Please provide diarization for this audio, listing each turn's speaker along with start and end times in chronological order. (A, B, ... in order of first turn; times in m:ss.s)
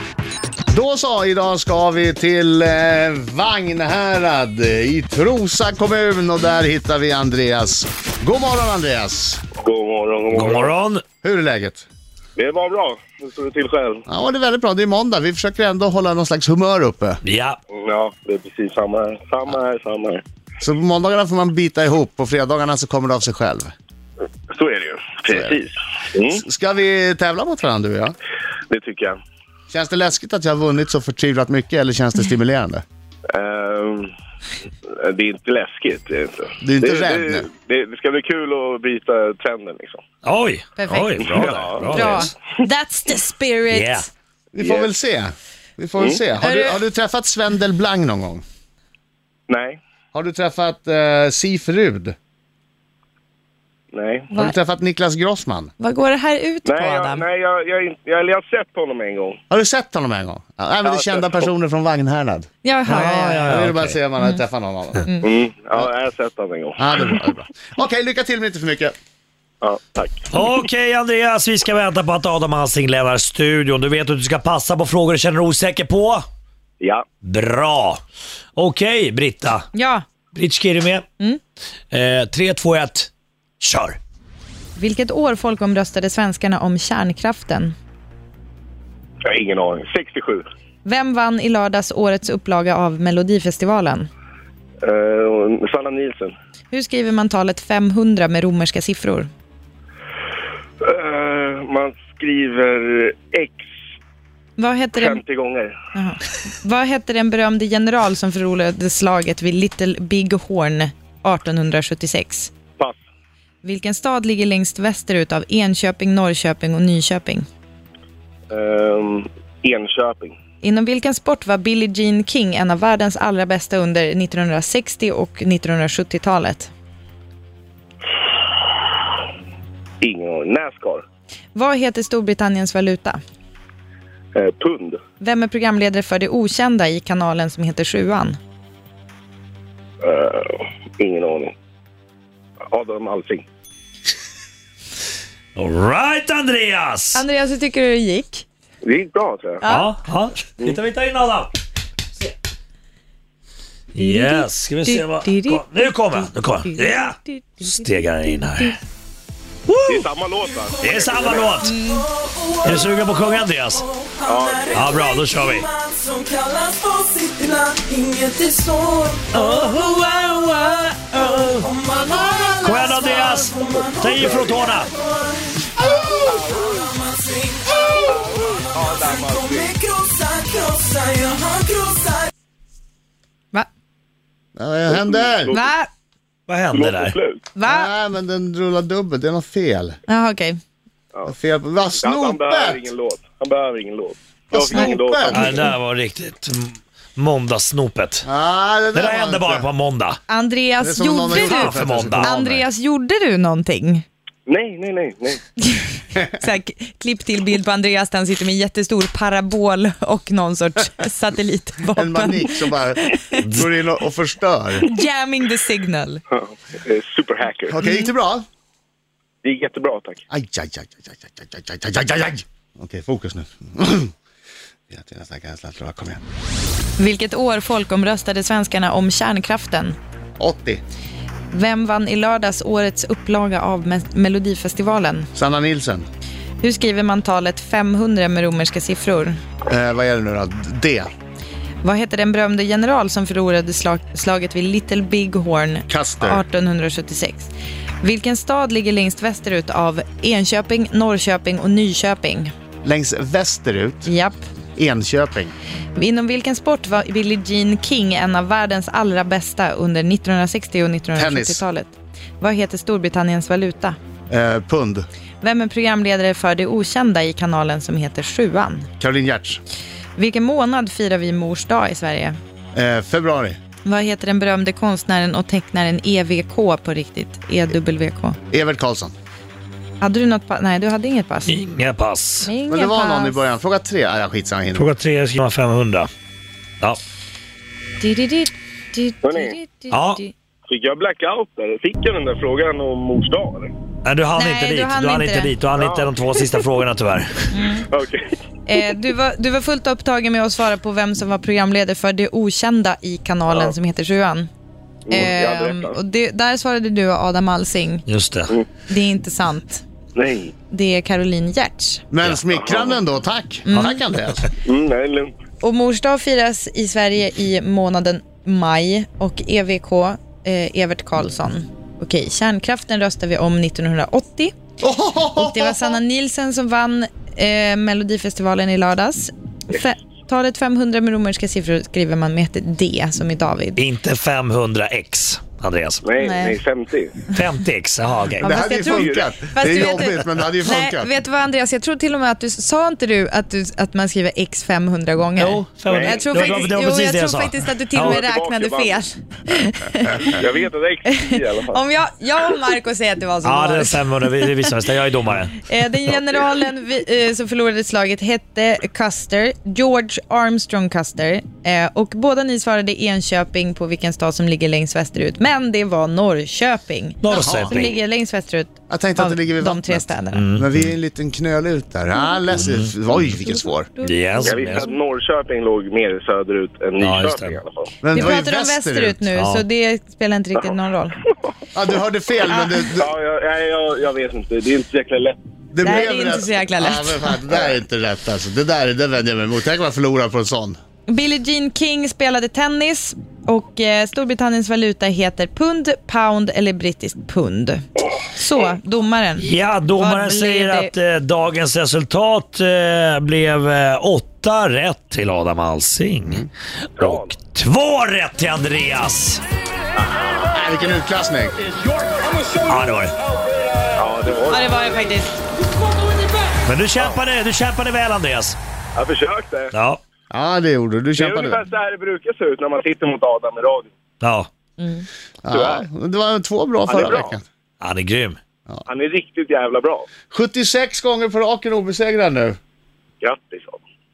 0:00.7-0:09.4 A
0:09.6-0:10.7 B
0:10.3-0:11.0 C
0:11.2-0:11.8 A
0:12.4-0:14.0 B
0:14.1-0:17.2 A
0:17.2-0:17.6 C
0:17.7-0:20.2 B
0:20.6-0:23.7 A
0:24.5-0:26.4 B
0:25.3-0:25.6 A
0:26.4-0:28.1 A
0:28.7-0:29.2 B
0:29.7-0:32.8 A
0:33.3-0:34.1 B
0:34.9-0:40.0 B
0:36.6-0:37.5 A
0:40.2-0:42.3 C
0:40.8-0:44.1 D
0:41.2-0:42.3 B
0:43.7-0:44.0 C
0:44.5-0:48.4 A
0:44.6-0:44.9 B
0:46.4-0:46.8 D
0:49.5-0:49.8 B
0:50.1-0:52.2 A
0:53.9-0:54.3 B
0:54.3-0:55.7 A
0:55.8-0:57.2 D
0:56.6-0:59.4 B
0:59.5-1:02.5 A
1:00.8-1:01.5 B
1:02.6-1:03.6 D
1:02.8-1:04.0 C
1:03.5-1:05.1 A
1:05.2-1:07.2 B
1:06.8-1:08.9 A
1:09.6-1:10.3 B
1:10.3-1:16.2 C
1:16.8-1:17.0 B
1:17.2-1:18.0 C
1:18.6-1:19.7 C
1:19.7-1:20.0 D
1:20.3-1:21.0 C
1:21.9-1:24.0 C
1:24.8-1:27.7 D
1:29.2-1:30.4 B
1:30.8-1:34.1 D
1:34.8-1:36.3 B
1:36.7-1:39.3 D
1:40.8-1:43.6 B
1:44.6-1:45.2 D
1:44.9-1:45.8 B
1:45.9-1:52.5 D
1:53.6-1:57.5 D
1:58.5-2:00.4 B
2:00.6-2:06.7 D
2:10.0-2:11.0 B
2:11.5-2:13.2 D
2:14.3-2:15.0 B
2:15.2-2:18.4 D
2:20.0-2:21.5 B
2:22.7-2:23.4 B
2:25.6-2:27.2 C
2:27.1-2:28.4 D
2:28.8-2:29.6 B
2:29.6-2:29.9 D
2:29.7-2:31.5 C
2:33.9-2:38.8 C
2:34.0-2:38.7 D
2:39.7-2:40.1 C
2:39.9-2:41.6 B
2:40.8-2:41.8 C
2:41.4-2:43.2 E
2:41.6-2:42.1 D
2:42.6-2:43.9 C
2:43.9-3:02.3 E
2:44.2-2:45.1 B
2:44.7-2:45.7 C
2:49.3-2:51.7 C
2:52.0-2:53.2 A
2:52.6-2:54.9 C
2:53.7-2:54.6 B
2:56.2-2:56.9 B
2:58.0-2:59.7 B
3:04.6-3:05.5 A
3:04.9-3:05.7 B
3:05.5-3:05.9 D
3:06.5-3:07.2 C
3:06.7-3:07.4 B
3:07.6-3:07.9 D
3:07.6-3:10.0 A
3:10.1-3:10.6 D
3:11.2-3:12.8 A
3:12.0-3:15.7 B
3:14.5-3:15.7 A
3:15.3-3:18.3 C
3:18.2-3:19.7 A
3:18.9-3:20.2 C
3:20.3-3:24.0 D
3:20.8-3:22.6 A
3:21.3-3:22.3 C
3:24.4-3:25.4 B
3:25.6-3:33.4 D
3:31.9-3:34.9 A
3:34.8-3:36.2 D
3:36.3-3:37.8 B
3:37.7-3:38.4 A
3:37.8-3:38.1 D
3:39.4-3:40.2 B
3:40.3-3:44.1 A
3:44.9-3:46.2 A
3:47.0-3:50.0 D
3:50.4-3:50.8 A
3:51.5-3:55.3 D
3:55.3-3:56.1 A
3:56.6-3:59.4 D
3:59.7-4:01.1 A
4:01.8-4:07.5 D
4:05.9-4:06.4 A
4:08.0-4:12.5 D
4:12.8-4:14.1 A
4:14.0-4:14.4 D
4:14.8-4:15.5 A
4:15.9-4:24.0 D
4:21.1-4:21.6 A
4:24.3-4:25.1 A
4:25.4-4:28.9 D
4:29.0-4:29.6 A
4:30.2-4:32.4 D
4:32.7-4:33.6 A
4:33.8-4:38.4 D
4:38.5-4:39.1 A
4:40.0-4:41.6 D
4:41.4-4:42.5 C
4:42.4-4:43.4 D
4:42.7-4:44.9 A
4:44.7-4:46.1 C
4:48.0-4:50.3 D
4:49.2-4:49.6 B
4:49.9-4:50.2 C
4:50.7-4:53.7 B
4:54.0-4:57.5 C
4:54.4-4:55.5 D
4:55.8-4:56.6 B
4:57.5-4:57.9 D
4:57.9-4:58.3 B
4:58.6-5:04.5 D
5:05.1-5:06.0 B
5:05.1-5:08.1 D
5:08.1-5:08.6 C
5:08.9-5:09.8 D
5:10.2-5:10.5 B
5:10.7-5:12.0 D
5:12.1-5:14.5 A
5:12.6-5:13.0 B
5:13.6-5:14.0 D
5:14.6-5:15.3 B
5:15.6-5:24.5 D
5:24.8-5:26.0 A
5:25.4-5:33.8 D
5:33.8-5:36.0 C
5:36.0-5:37.2 B
5:36.2-5:36.6 D
5:37.3-5:38.5 C
5:38.4-5:41.1 A
5:38.4-5:50.4 D
5:38.9-5:39.2 B
5:45.4-5:48.2 C
5:45.9-5:46.7 B
5:48.0-5:49.0 B
5:50.3-5:51.8 B
5:51.1-5:54.5 D
5:53.4-5:55.7 C
5:55.7-6:10.4 D
6:07.2-6:08.0 C
6:07.3-6:07.8 A
6:08.9-6:13.9 A
6:10.3-6:10.9 C
6:12.1-6:12.4 D
6:12.6-6:13.3 C
6:13.4-6:15.0 D
6:14.0-6:14.9 C
6:14.4-6:18.0 B
6:17.0-6:17.6 C
6:18.0-6:19.2 A
6:18.1-6:21.2 D
6:19.3-6:19.6 C
6:21.7-6:23.1 A
6:22.9-6:26.0 B
6:25.7-6:30.8 A
6:25.8-6:27.3 D
6:31.1-6:40.9 D
6:39.4-6:49.4 C
6:47.0-6:47.3 B
6:50.0-6:50.5 B
6:50.5-6:51.6 A
6:52.6-6:53.1 C
6:53.9-6:54.7 B
6:54.5-6:55.4 D
6:56.6-6:58.6 C
6:58.9-6:59.7 B
6:59.7-7:00.0 C
7:00.3-7:01.6 A
7:01.2-7:03.9 B
7:04.2-7:04.5 C
7:04.8-7:05.1 D
7:05.4-7:07.4 A
7:05.5-7:05.9 B
7:06.9-7:07.4 B
7:07.8-7:08.4 C
7:08.9-7:10.1 B
7:10.3-7:12.6 A
7:13.2-7:13.8 B